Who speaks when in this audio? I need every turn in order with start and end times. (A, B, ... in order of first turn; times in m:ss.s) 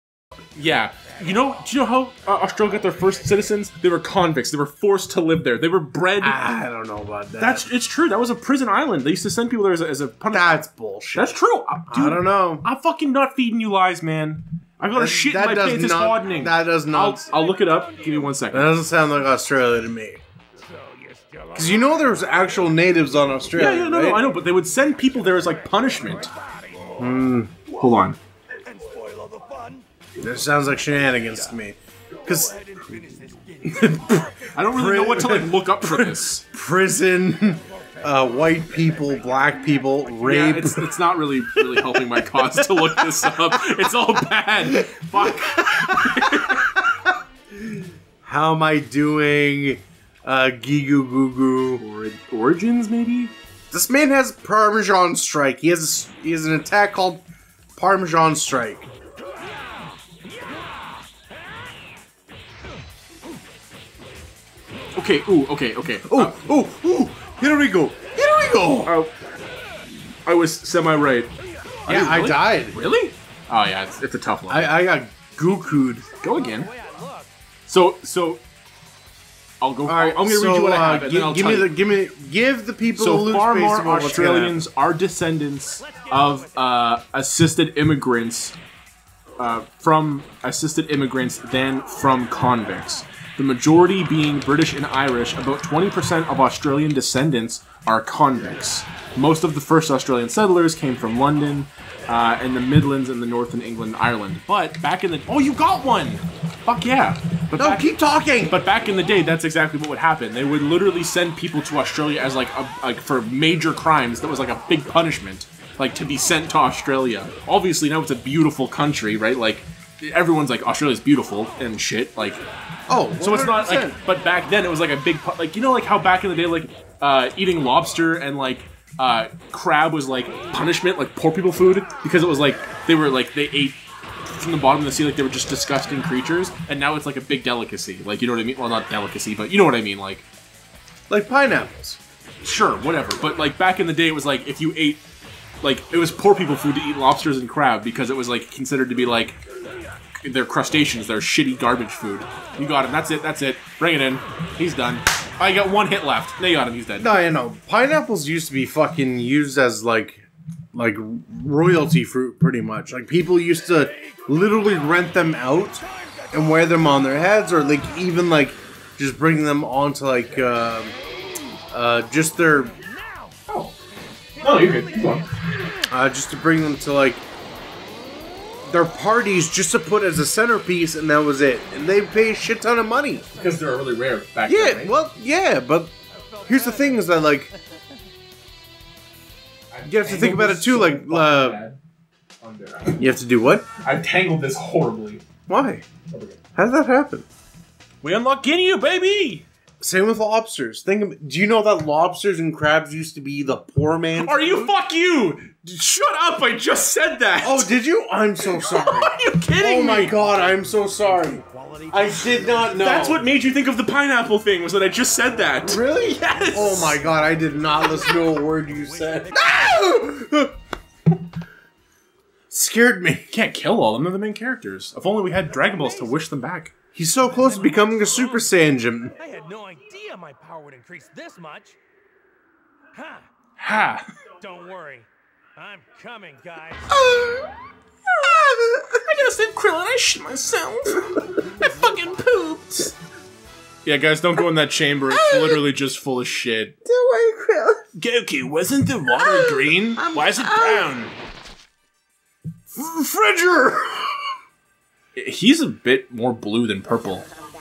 0:00.6-0:06.4 A
0:06.2-0:07.7 B
0:07.4-0:10.6 A
0:10.3-0:11.3 B
0:11.1-0:18.7 A
0:11.9-0:12.7 B
0:14.9-0:17.3 B
0:18.5-0:20.2 B
0:20.7-0:22.4 C
0:21.6-0:24.2 B
0:23.6-0:26.3 A
0:25.4-0:27.0 C
0:27.0-0:27.5 B
0:27.7-0:28.2 A
0:28.7-0:29.9 C
0:30.2-0:32.6 B
0:32.2-0:34.5 C
0:33.7-0:40.9 B
0:34.5-0:36.4 A
0:40.2-0:46.9 A
0:41.6-0:43.9 B
0:44.6-0:51.8 B
0:51.8-0:53.3 A
0:53.7-0:57.2 B
0:57.8-0:58.9 B
1:05.0-1:06.4 A
1:06.1-1:08.9 B
1:08.8-1:09.1 A
1:10.2-1:11.3 A
1:11.9-1:12.8 B
1:11.9-1:14.8 A
1:14.5-1:16.1 B
1:16.2-1:16.7 A
1:16.4-1:17.3 C
1:17.7-1:18.4 A
1:19.6-1:21.8 A
1:19.9-1:24.6 B
1:23.0-1:28.6 A
1:25.8-1:26.4 C
1:29.4-1:47.9 A
1:47.6-1:48.6 B
1:48.5-2:02.4 A
2:02.9-2:04.0 B
2:03.2-2:13.8 A
2:14.3-2:20.3 A
2:21.1-2:22.0 B
2:22.4-2:25.0 A
2:25.6-2:29.4 A
2:30.2-2:37.2 A
2:37.0-2:51.0 B
2:46.0-2:46.7 C
2:51.7-2:52.7 B
2:52.5-2:53.4 C
2:53.5-2:53.7 A
2:54.3-2:55.8 C
2:54.4-2:55.3 A
2:55.9-2:57.2 B
2:58.7-3:03.2 B
3:03.4-3:04.9 A
3:04.5-3:05.9 B
3:06.2-3:07.6 C
3:06.5-3:07.5 B
3:09.7-3:11.8 A
3:09.8-3:11.6 B
3:12.4-3:13.1 A
3:13.0-3:13.7 B
3:13.7-3:15.2 A
3:15.5-3:15.9 B
3:16.1-3:16.4 A
3:16.6-3:17.2 B
3:18.0-3:19.5 A
3:19.8-3:24.7 B
3:24.2-3:27.7 A
3:27.4-3:33.2 B
3:28.4-3:30.2 A
3:30.0-3:33.0 C
3:32.8-3:37.0 A
3:35.6-3:40.5 B
3:36.7-3:39.9 C
3:42.5-3:43.3 B
3:43.3-3:46.7 A
3:47.0-3:49.1 B
3:47.3-3:48.5 C
3:49.2-3:51.8 C
3:53.0-3:53.3 C
3:53.6-3:54.0 A
3:54.4-3:57.0 C
3:57.0-3:57.5 B
3:58.2-3:59.0 B
3:58.2-4:02.9 A
4:03.8-4:06.8 A
4:05.1-4:05.6 B
4:06.8-4:07.8 B
4:08.0-4:11.1 A
4:09.2-4:10.9 B
4:12.7-4:14.3 B
4:15.2-4:17.3 A